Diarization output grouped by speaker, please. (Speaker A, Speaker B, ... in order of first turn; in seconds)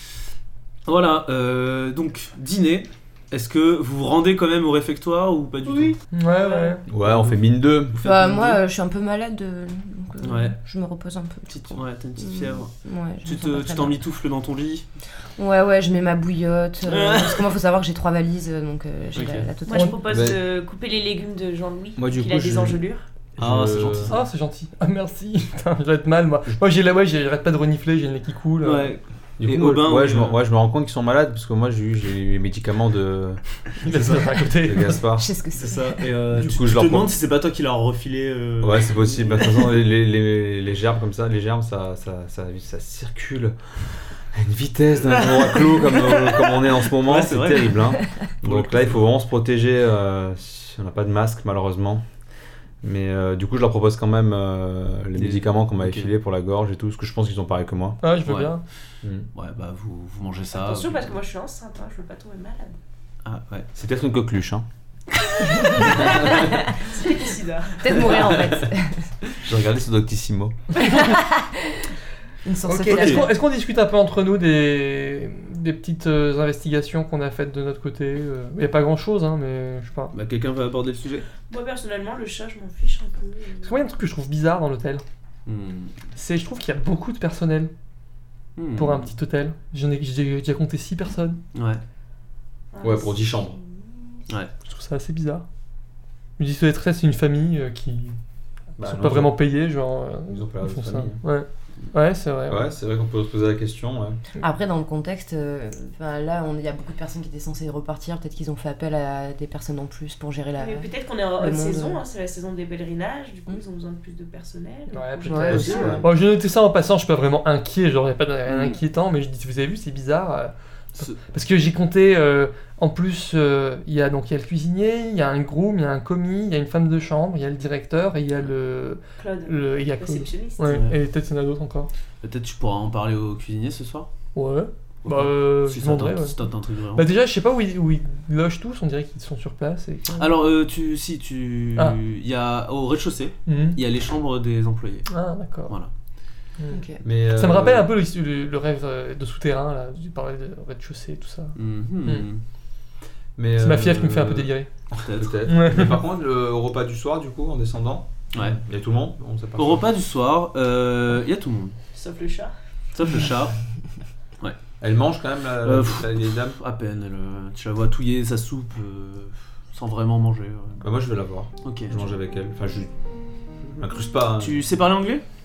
Speaker A: 0.9-6.0, 7.0-8.6, 10.2-10.6, 11.5-12.7, 13.2-14.9, 16.9-17.6, 19.1-19.5, 23.4-24.2, 28.6-30.4, 33.9-34.2, 35.5-39.7, 45.1-49.0, 55.2-56.1, 58.2-58.5, 59.3-61.2, 63.2-63.7, 65.6-65.9, 72.9-73.3, 80.1-81.3, 85.5-86.0, 88.6-89.1, 91.5-91.8, 118.5-118.8, 130.6-131.0, 132.2-134.1, 135.1-137.1, 140.1-145.1, 151.6-152.4, 155.0-155.4, 158.3-158.6, 159.6-161.8, 162.9-163.6, 165.6-170.8, 171.6-172.0, 174.4-175.2
Speaker B: 5.6-6.8, 19.7-23.0, 60.5-62.8, 65.9-68.1, 81.5-83.8, 92.7-93.9, 110.6-116.1, 129.2-130.9, 161.9-162.5
Speaker C: 6.1-6.8, 24.1-29.0, 33.8-35.0, 58.0-58.6, 72.7-80.1, 83.6-85.0, 86.2-87.7, 88.8-91.4, 94.7-95.5, 96.4-98.2, 98.8-102.6, 114.9-131.9, 134.3-136.4, 136.9-140.3, 143.5-143.8, 145.1-145.7, 146.6-152.3, 153.6-154.7, 155.5-156.0
Speaker D: 6.9-8.0, 20.1-20.4, 22.0-22.8, 23.4-24.1, 29.4-33.4, 34.6-35.3, 36.4-37.1, 38.6-52.0, 52.8-58.0, 63.8-64.7, 66.0-66.5, 68.2-68.7, 69.3-70.6, 92.8-93.6, 98.8-99.4, 100.3-101.2, 102.5-104.2, 115.5-116.1, 147.0-147.9, 153.4-159.9, 164.8-166.6, 170.8-172.9, 173.7-174.6
Speaker E: 8.0-14.0, 15.4-20.0, 35.2-36.0, 65.6-66.6, 67.8-69.1, 70.8-71.8, 72.5-73.3, 104.4-112.0, 115.2-116.0, 146.7-147.0